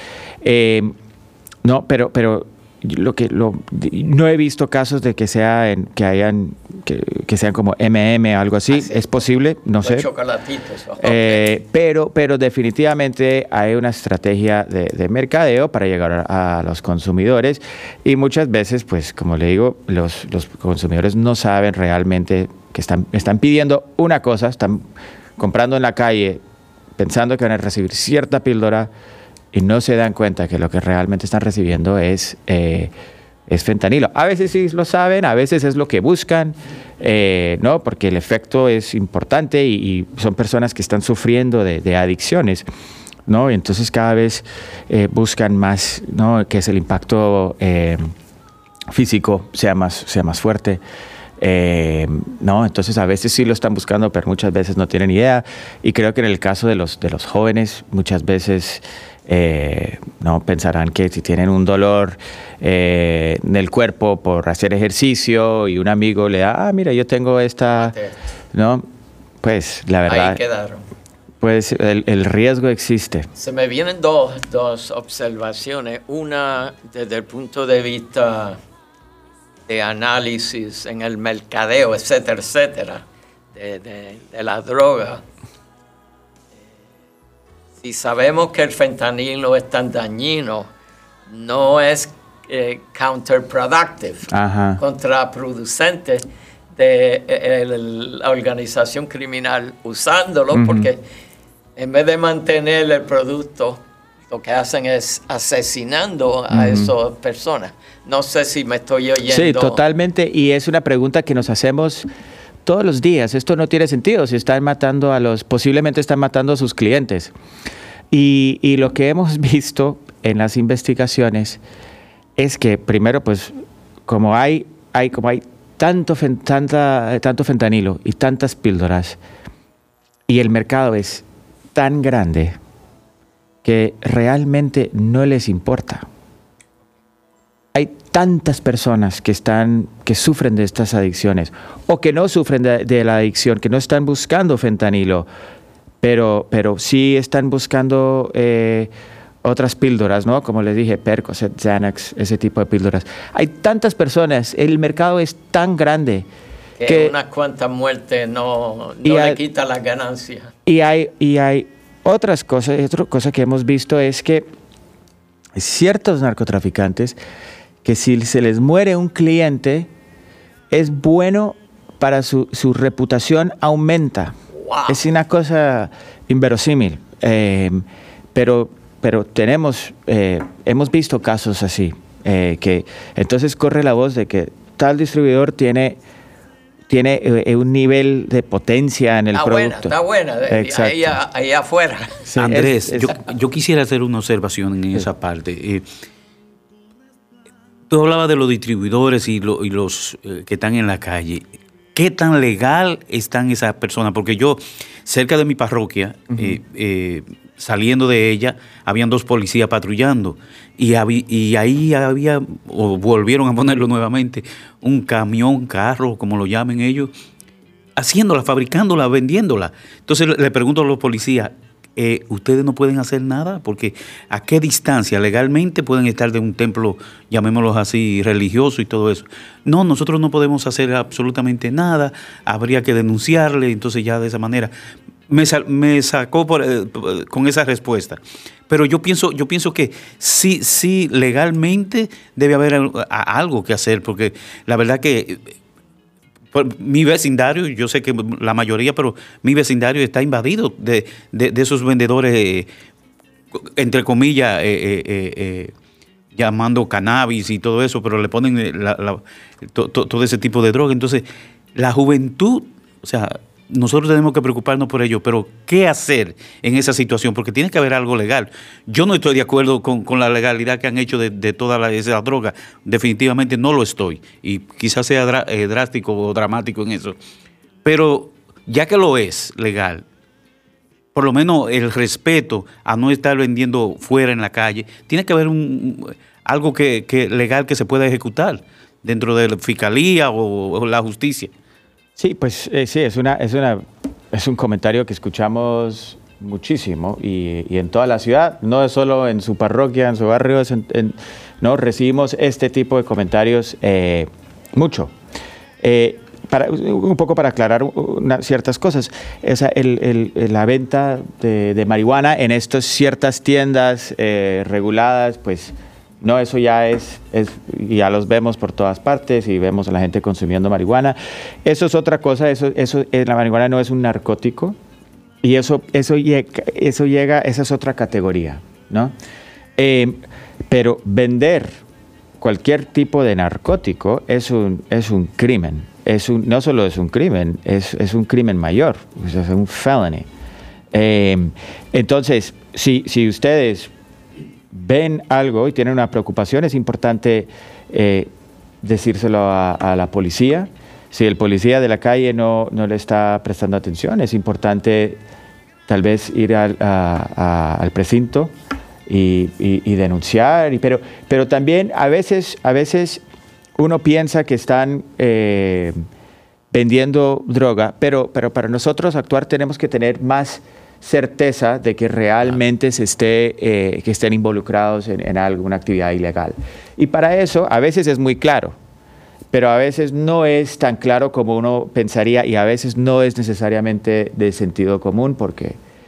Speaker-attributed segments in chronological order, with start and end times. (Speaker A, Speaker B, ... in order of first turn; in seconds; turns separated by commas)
Speaker A: 0.4-0.9, Speaker A: 1.6-10.1, Speaker B: 8.7-9.0, Speaker B: 9.8-11.4, Speaker A: 11.0-24.9, Speaker A: 25.4-26.4, Speaker A: 27.0-28.9, Speaker A: 29.5-32.9, Speaker A: 33.5-42.6, Speaker A: 43.3-48.1, Speaker A: 48.9-50.8, Speaker A: 51.4-68.0, Speaker B: 67.8-68.2, Speaker A: 68.5-68.9, Speaker A: 69.4-70.4, Speaker B: 70.1-70.8, Speaker A: 71.4-73.3, Speaker B: 73.4-78.6, Speaker B: 79.7-85.2, Speaker B: 87.8-90.7, Speaker B: 91.3-96.2, Speaker A: 94.3-94.8, Speaker B: 96.8-101.0, Speaker A: 100.5-100.9, Speaker B: 101.8-109.8, Speaker A: 106.5-106.9, Speaker A: 109.3-112.1, Speaker A: 112.7-117.3, Speaker A: 118.1-121.6, Speaker A: 122.4-123.5, Speaker A: 124.1-129.2, Speaker A: 130.3-132.6, Speaker A: 133.6-136.1, Speaker A: 137.7-145.3, Speaker A: 146.0-148.9, Speaker A: 149.4-156.3, Speaker B: 156.8-160.5, Speaker A: 156.9-157.1, Speaker A: 159.0-159.4, Speaker A: 160.7-164.5, Speaker A: 165.6-167.2, Speaker A: 167.8-169.9, Speaker A: 170.7-174.4, Speaker B: 174.6-175.0, Speaker A: 174.9-177.8, Speaker A: 178.3-186.0, Speaker A: 186.9-189.9, Speaker B: 189.3-192.2, Speaker A: 190.5-191.2, Speaker A: 192.3-193.1, Speaker C: 192.4-195.8, Speaker C: 197.9-201.4, Speaker C: 201.9-217.1, Speaker C: 218.0-234.7, Speaker C: 235.3-245.5, Speaker C: 246.5-252.7, Speaker C: 253.6-255.7, Speaker C: 256.4-277.2, Speaker C: 277.9-280.1, Speaker C: 281.1-291.5, Speaker A: 292.2-305.1, Speaker A: 305.8-324.8, Speaker A: 325.4-329.1, Speaker A: 329.8-331.8, Speaker A: 332.4-340.3, Speaker A: 340.9-343.9, Speaker A: 344.7-348.3, Speaker A: 348.8-355.2, Speaker A: 355.9-358.5, Speaker A: 359.1-363.2, Speaker A: 363.8-366.0, Speaker A: 366.7-378.8, Speaker A: 379.5-385.8